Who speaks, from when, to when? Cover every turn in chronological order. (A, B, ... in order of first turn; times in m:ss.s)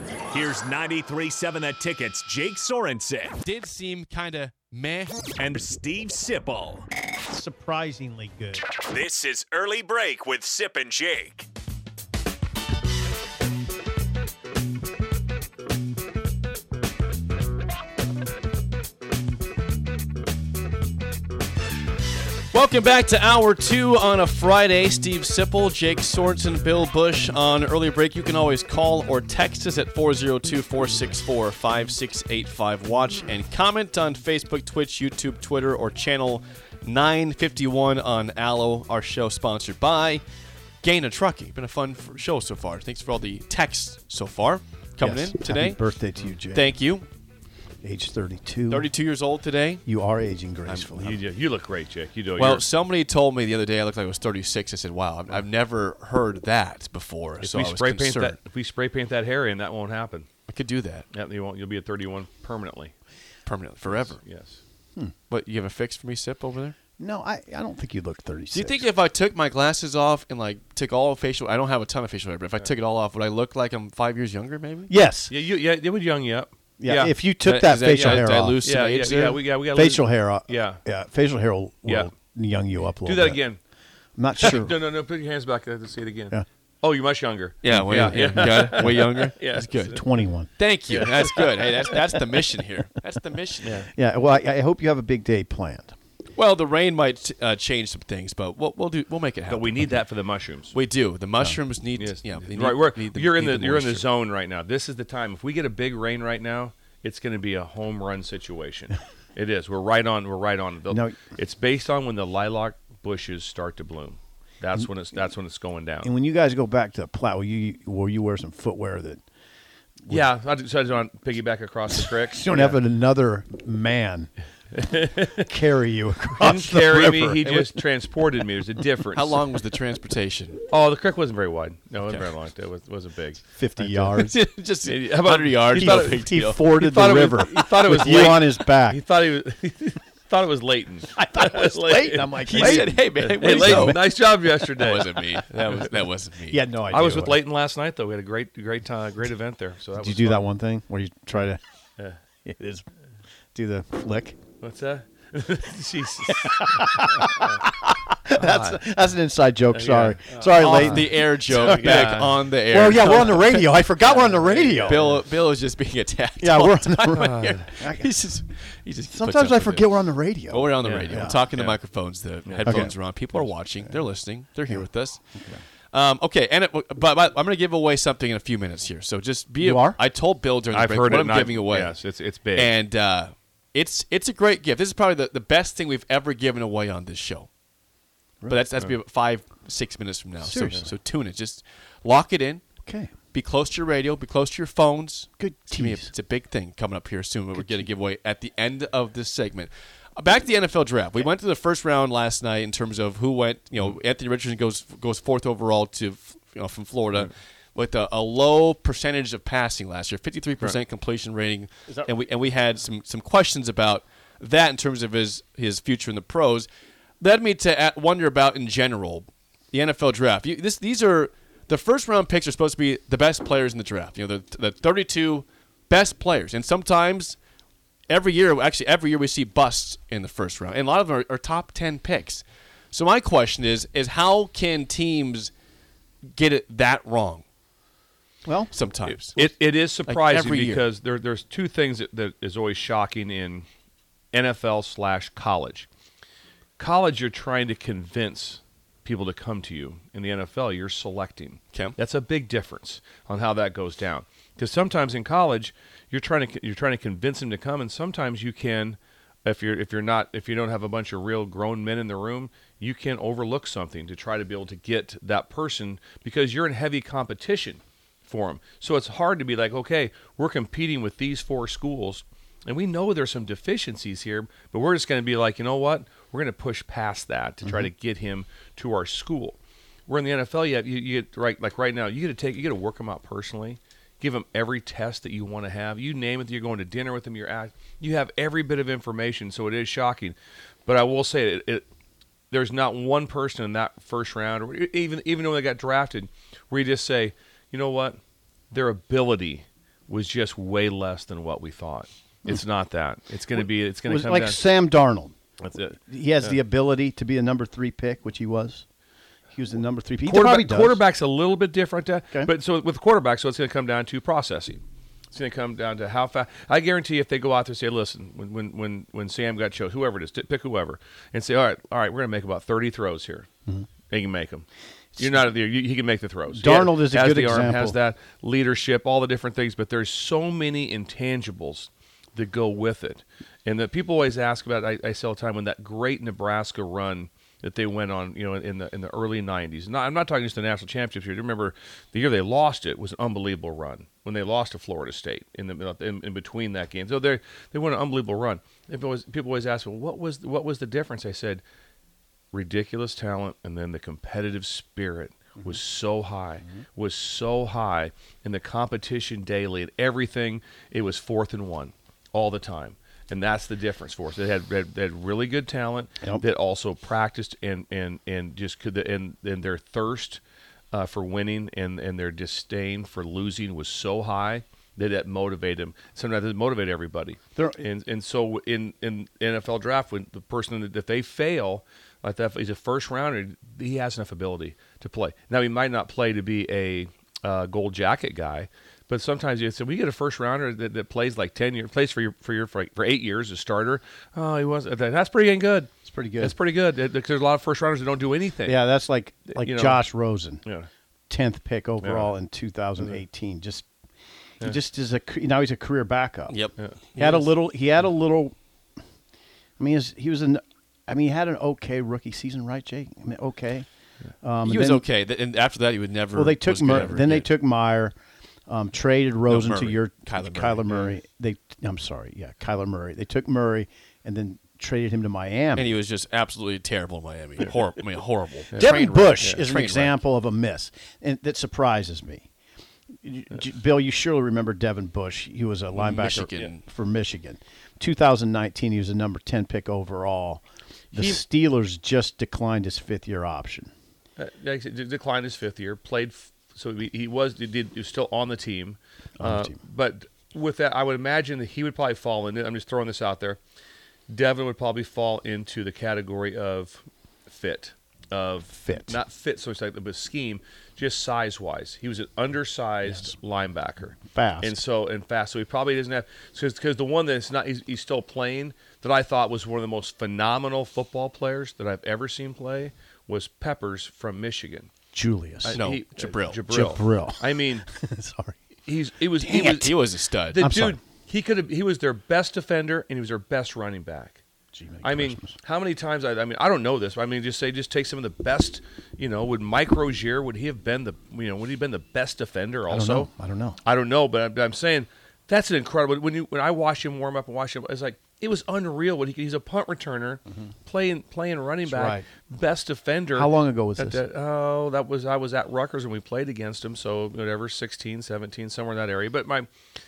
0:00.3-0:03.4 A
0:03.4-0:05.3 B
0:05.4-0:06.9 A
0:07.3-0:08.6 C
0:08.9-0:11.4 A
0:22.5-0:40.2 B
0:40.8-0:45.8 B
0:45.0-0:46.7 C
0:46.5-0:47.0 B
0:47.8-0:48.9 C
0:48.7-0:49.8 B
0:49.8-0:51.2 C
0:50.9-0:52.6 D
0:52.4-0:58.4 B
0:57.4-1:00.3 D
1:00.5-1:01.0 B
1:01.1-1:02.9 D
1:03.4-1:04.2 B
1:03.8-1:04.6 D
1:05.3-1:06.8 B
1:07.0-1:08.8 C
1:08.5-1:14.9 B
1:14.9-1:15.3 C
1:15.3-1:17.1 D
1:16.8-1:18.6 C
1:17.4-1:19.4 B
1:17.9-1:20.8 D
1:19.7-1:23.4 C
1:23.0-1:23.6 D
1:24.2-1:24.7 C
1:24.4-1:30.0 D
1:27.6-1:30.0 B
1:27.8-1:29.0 C
1:29.9-1:30.5 C
1:30.6-1:33.8 B
1:30.9-1:31.7 D
1:33.6-1:33.9 D
1:33.9-1:35.9 C
1:36.4-1:39.9 B
1:39.5-1:40.7 D
1:40.7-1:44.0 B
1:42.0-1:56.1 D
1:50.9-1:51.2 C
1:56.0-1:59.2 C
2:00.1-2:02.8 D
2:02.0-2:04.3 C
2:04.7-2:05.5 D
2:05.2-2:07.8 C
2:06.4-2:09.4 D
2:09.1-2:10.6 B
2:10.7-2:13.4 D
2:13.5-2:14.4 C
2:13.9-2:16.6 B
2:14.8-2:25.1 D
2:15.8-2:19.0 C
2:21.1-2:24.2 C
2:22.5-2:24.1 B
2:24.7-2:26.6 B
2:26.5-2:27.4 C
2:26.9-2:30.4 D
2:30.0-2:31.6 C
2:32.4-2:32.8 C
2:33.5-2:34.4 C
2:34.6-2:37.6 D
2:36.2-2:42.1 C
2:38.3-2:38.8 D
2:39.7-2:42.4 D
2:40.5-2:43.6 B
2:42.7-2:45.1 C
2:44.0-2:45.2 D
2:44.8-2:49.9 B
2:46.4-2:48.1 C
2:47.1-2:47.6 D
2:49.1-2:51.4 C
2:50.5-2:55.2 B
2:50.8-2:51.8 D
2:52.4-2:52.9 D
2:52.6-2:52.9 C
2:54.7-2:55.6 C
2:55.9-3:01.9 B
2:59.6-3:00.0 C
3:00.7-3:02.7 D
3:02.6-3:07.5 B
3:08.5-3:12.6 B
3:10.4-3:10.9 C
3:12.8-3:13.1 C
3:13.3-3:36.7 B
3:15.4-3:16.1 C
3:17.5-3:17.9 C
3:37.2-3:47.4 B
3:48.1-3:55.5 B
3:56.3-3:57.4 B
3:58.4-3:58.7 C
3:58.7-3:59.5 B
3:59.2-4:03.6 D
4:00.0-4:00.8 B
4:04.3-4:05.9 D
4:06.8-4:51.9 D
4:52.5-4:58.2 D
4:58.7-5:04.6 D
5:04.0-5:05.4 C
5:05.6-5:06.5 D
5:05.9-5:08.8 C
5:09.5-5:11.0 C
5:10.2-5:14.8 D
5:15.3-5:23.5 D
5:24.1-5:24.6 D
5:25.2-5:51.6 D
5:26.5-5:28.0 C
5:52.5-6:10.4 D
6:10.9-6:38.8 D
6:17.6-6:17.8 C
6:36.0-6:36.6 C
6:38.6-6:40.6 C
6:39.5-6:40.0 D
6:41.3-6:43.9 C
6:42.0-6:42.3 D
6:44.6-6:46.5 C
6:46.5-6:47.5 B
6:47.2-6:48.6 C
6:49.8-6:53.9 C
6:54.4-6:55.0 C
6:54.6-6:57.5 B
6:56.3-6:58.1 C
6:58.7-7:05.9 C
6:59.5-7:01.1 B
7:05.8-7:10.2 B
7:08.7-7:12.5 C
7:13.2-7:20.6 C
7:16.0-7:16.8 B
7:21.1-7:23.9 C
7:24.4-7:33.6 D
7:29.4-7:29.8 C
7:34.3-7:54.9 D
7:38.8-7:39.2 C
7:44.3-7:44.8 C
7:55.1-7:55.8 C
7:55.6-7:57.9 D
7:55.7-7:56.6 B
7:56.7-7:58.6 C
7:58.9-8:00.0 D
7:59.4-7:59.9 C
7:59.6-8:00.6 B
8:00.5-8:04.4 D
8:00.6-8:01.0 C
8:04.7-8:05.6 C
8:05.0-8:13.3 D
8:12.9-8:13.8 C
8:13.8-8:29.7 D
8:21.8-8:22.2 C
8:23.4-8:24.2 C